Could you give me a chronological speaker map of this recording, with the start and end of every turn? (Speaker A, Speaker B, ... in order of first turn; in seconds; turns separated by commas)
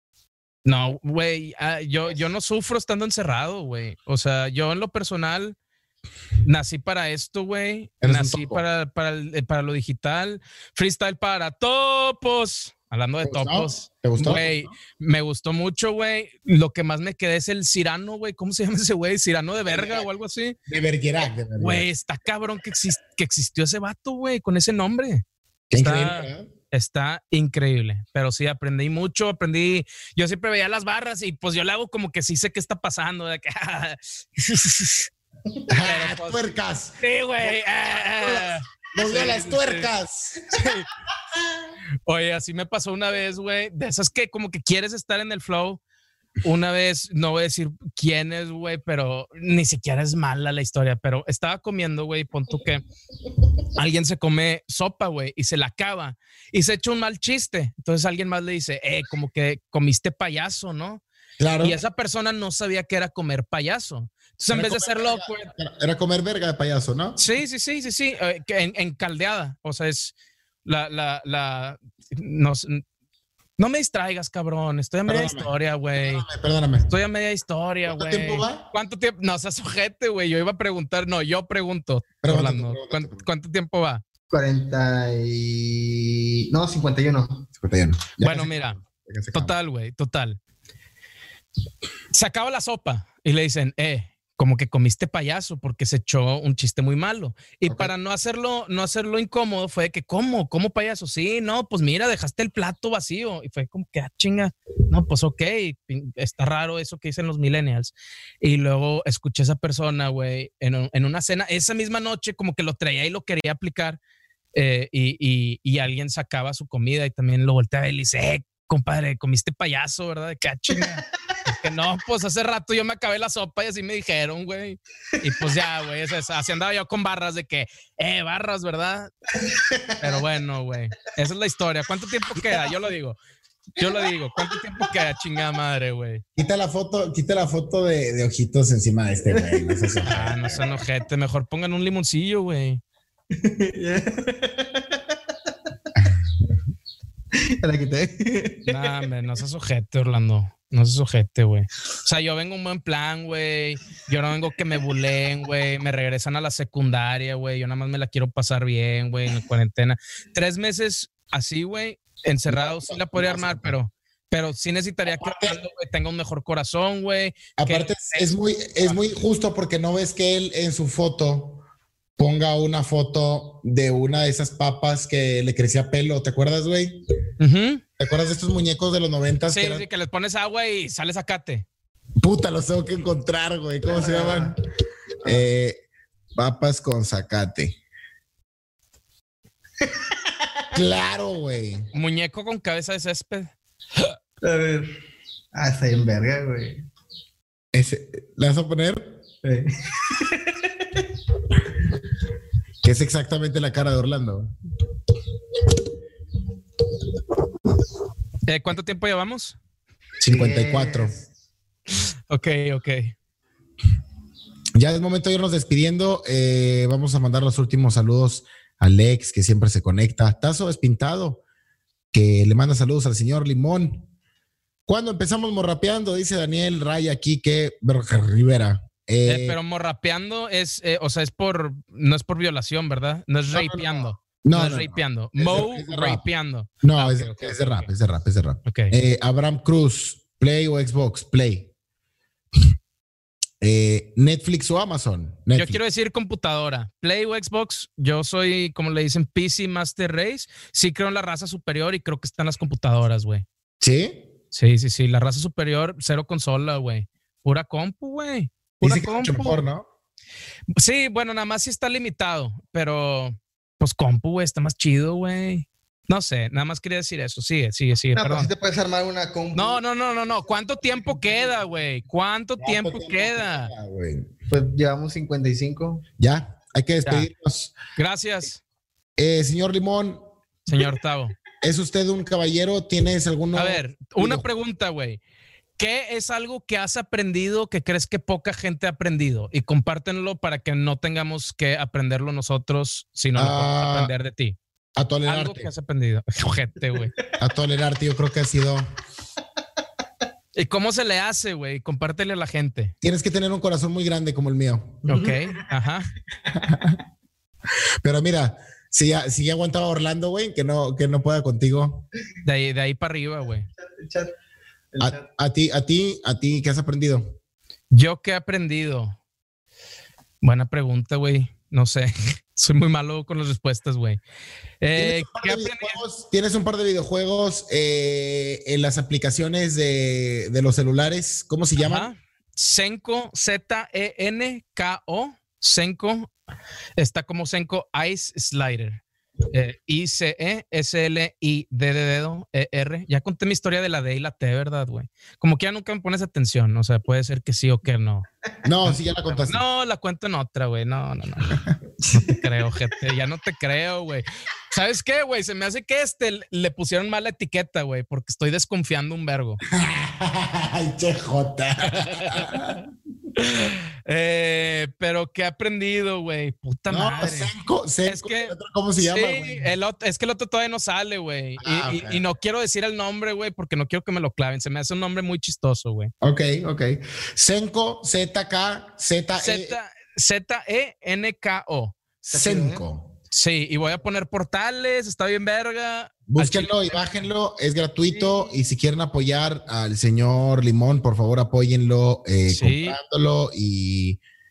Speaker A: 0.6-5.5, Speaker A: 6.4-20.6, Speaker B: 8.0-8.6, Speaker B: 13.2-14.7, Speaker B: 20.7-21.9, Speaker A: 21.6-25.2, Speaker B: 25.7-26.5, Speaker A: 25.8-35.1, Speaker B: 35.7-37.0, Speaker A: 35.8-36.5, Speaker A: 37.0-39.9, Speaker B: 38.2-40.5, Speaker A: 40.5-40.9, Speaker A: 42.0-45.8, Speaker A: 46.4-52.8, Speaker A: 53.7-61.0, Speaker B: 61.4-61.8, Speaker A: 61.6-65.5, Speaker B: 64.5-67.2, Speaker A: 67.2-72.8, Speaker A: 73.6-76.2, Speaker B: 75.1-76.9, Speaker A: 76.9-84.0, Speaker B: 77.9-78.7, Speaker B: 82.2-83.2, Speaker C: 84.3-87.5, Speaker B: 87.6-89.5, Speaker A: 88.2-88.8, Speaker A: 89.3-90.4, Speaker A: 92.1-114.0, Speaker B: 97.7-97.9, Speaker A: 114.5-129.1, Speaker C: 129.4-130.2, Speaker A: 130.0-133.2, Speaker A: 133.8-136.2, Speaker C: 133.8-135.0, Speaker B: 136.4-140.4, Speaker C: 139.3-140.7, Speaker A: 140.1-142.8, Speaker C: 143.3-145.2, Speaker C: 147.3-149.1, Speaker A: 148.6-168.2, Speaker B: 162.5-163.7, Speaker B: 165.1-165.6, Speaker B: 167.6-171.6, Speaker B: 172.2-177.0, Speaker A: 177.4-177.8, Speaker B: 178.0-179.8, Speaker A: 179.5-181.7, Speaker B: 182.2-184.5, Speaker C: 183.9-184.6, Speaker B: 185.2-185.8, Speaker B: 186.4-187.8, Speaker C: 189.8-190.7, Speaker B: 190.7-191.9, Speaker A: 191.9-193.5, Speaker C: 194.4-194.9, Speaker C: 195.5-196.8, Speaker B: 197.7-199.2, Speaker C: 199.4-201.3, Speaker B: 202.8-204.5, Speaker A: 208.4-209.6, Speaker B: 210.2-211.1, Speaker C: 210.2-211.3, Speaker A: 212.3-213.2, Speaker B: 214.7-221.4, Speaker B: 222.1-224.1, Speaker B: 224.8-229.6, Speaker A: 229.2-237.9, Speaker B: 233.5-236.2, Speaker B: 236.8-241.7, Speaker A: 238.6-238.9, Speaker B: 243.6-245.8, Speaker A: 245.6-253.4, Speaker B: 253.8-254.3, Speaker A: 254.5-259.6, Speaker B: 258.8-259.9, Speaker A: 260.7-268.5, Speaker C: 268.1-269.8, Speaker A: 269.5-273.7, Speaker B: 272.6-274.3, Speaker C: 274.5-276.0, Speaker B: 276.2-277.8, Speaker A: 277.9-278.6, Speaker B: 279.2-280.2, Speaker A: 280.7-281.3, Speaker B: 281.6-284.4, Speaker A: 283.5-285.2, Speaker A: 285.8-294.6, Speaker B: 293.4-294.1, Speaker B: 294.9-295.7, Speaker A: 295.2-297.1, Speaker B: 297.4-298.9, Speaker A: 300.5-302.9, Speaker B: 303.0-305.0, Speaker C: 305.1-305.7, Speaker A: 305.1-306.1, Speaker B: 306.5-307.0, Speaker B: 308.0-312.1, Speaker A: 312.4-313.7, Speaker C: 313.8-314.3, Speaker C: 314.9-315.2, Speaker B: 315.0-317.4, Speaker A: 317.9-319.2, Speaker A: 320.4-324.2, Speaker A: 324.8-326.0, Speaker B: 324.9-332.1, Speaker A: 331.8-336.3, Speaker A: 337.0-348.2, Speaker B: 348.6-349.6, Speaker C: 348.9-349.4, Speaker A: 349.5-351.6, Speaker A: 352.1-359.6, Speaker B: 359.7-362.8, Speaker A: 361.9-362.6, Speaker A: 363.3-367.5, Speaker B: 366.9-369.7, Speaker A: 368.0-376.1, Speaker B: 371.6-372.2, Speaker B: 376.2-379.8, Speaker A: 379.4-382.0, Speaker C: 382.2-382.8, Speaker B: 382.3-383.1, Speaker A: 383.3-387.0, Speaker B: 386.3-394.2, Speaker C: 388.1-388.5, Speaker A: 392.5-393.0